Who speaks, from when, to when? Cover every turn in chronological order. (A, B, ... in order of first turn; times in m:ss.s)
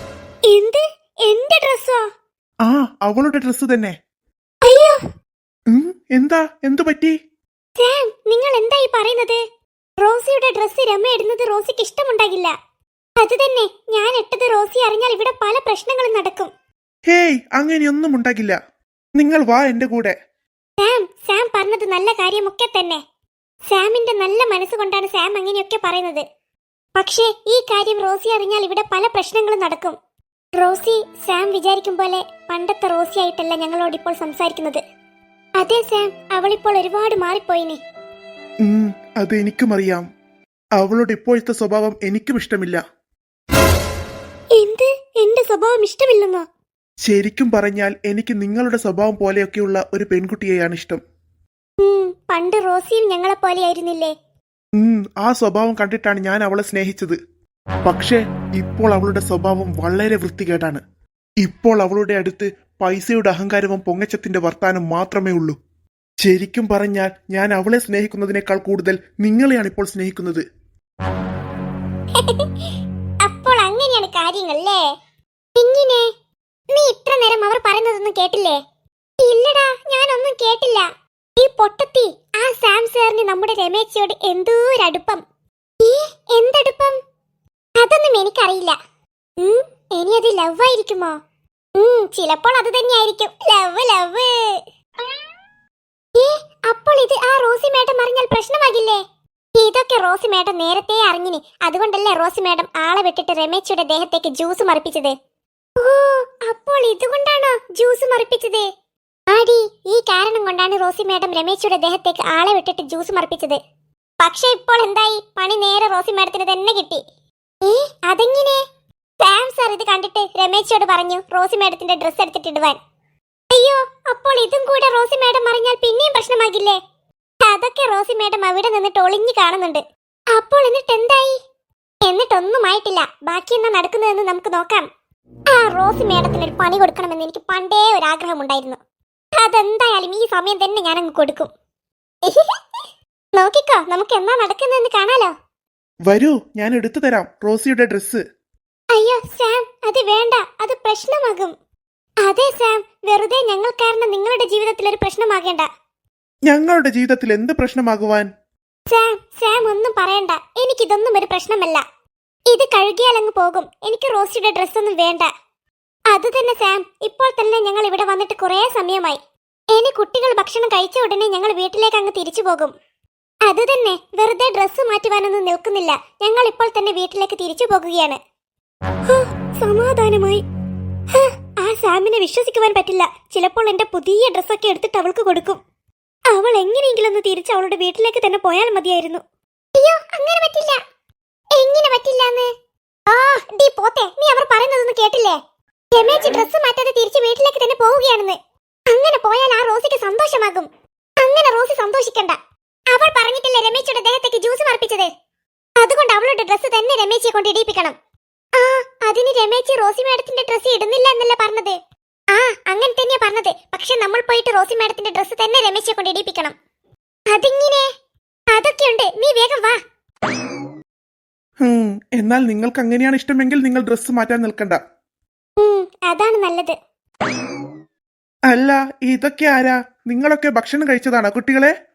0:00.5-0:02.0 A
0:02.6-0:03.9 B
0:04.6-0:05.0 A
0:05.7-0:07.1 B
0:07.8-0:09.4 A
0:10.0-0:12.5 A
0:13.2-0:16.5 A
0:17.1-0:18.6 B
0:19.2-0:20.1 B
0:20.8-0:23.0 A
0:23.6-0:26.2 A
0:26.9-0:30.0 A
0:30.6-0:34.8 A
0:35.6-0:37.8 A
0:38.6-0:40.0 B
0:40.8-0:42.8 B
0:44.5-0:46.4 A
0:47.0-0:51.0 B
0:51.8-0:54.1 A
0:54.8-0:57.2 B
0:57.8-1:00.8 B
1:01.4-1:05.6 B
1:06.2-1:10.4 B
1:12.2-1:12.7 A
1:13.2-1:14.8 A
1:15.6-1:16.1 A
1:16.7-1:18.6 A
1:19.2-1:25.2 A
1:25.8-1:27.0 A
1:27.8-1:28.8 A
1:29.4-1:31.2 A
1:31.8-1:34.6 A
1:36.1-1:39.0 A
1:39.5-1:45.1 A
1:45.8-1:48.7 A
1:49.3-1:53.6 A
1:54.2-1:57.0 A
1:57.6-1:58.6 A
1:59.2-2:02.8 A
2:03.5-2:06.8 A
2:07.4-2:09.8 A
2:10.3-2:11.4 A
2:12.0-2:14.8 A
2:15.5-2:18.8 A
2:19.4-2:21.5 A
2:22.2-2:22.6 A
2:23.3-2:25.3 A
2:26.0-2:28.2 B
2:28.9-2:31.5 A
2:32.2-2:35.7 A
2:36.5-2:38.3 B
2:38.9-2:41.8 A
2:42.5-2:45.3 A
2:46.1-2:49.2 A
2:49.7-2:52.7 A
2:53.4-2:58.2 A
2:59.1-3:00.4 A
3:01.1-3:05.6 A
3:06.3-3:09.2 A
3:09.8-3:10.8 A
3:11.5-3:12.5 A
3:13.1-3:15.4 A
3:15.9-3:18.4 A
3:18.9-3:20.7 A
3:21.2-3:22.4 A
3:22.9-3:25.1 A
3:25.8-3:28.0 A
3:28.5-3:31.8 A
3:32.3-3:36.6 A
3:37.3-3:37.9 A
3:38.5-3:39.8 A
3:41.6-3:44.8 B
3:45.6-3:46.7 A
3:48.5-3:51.7 B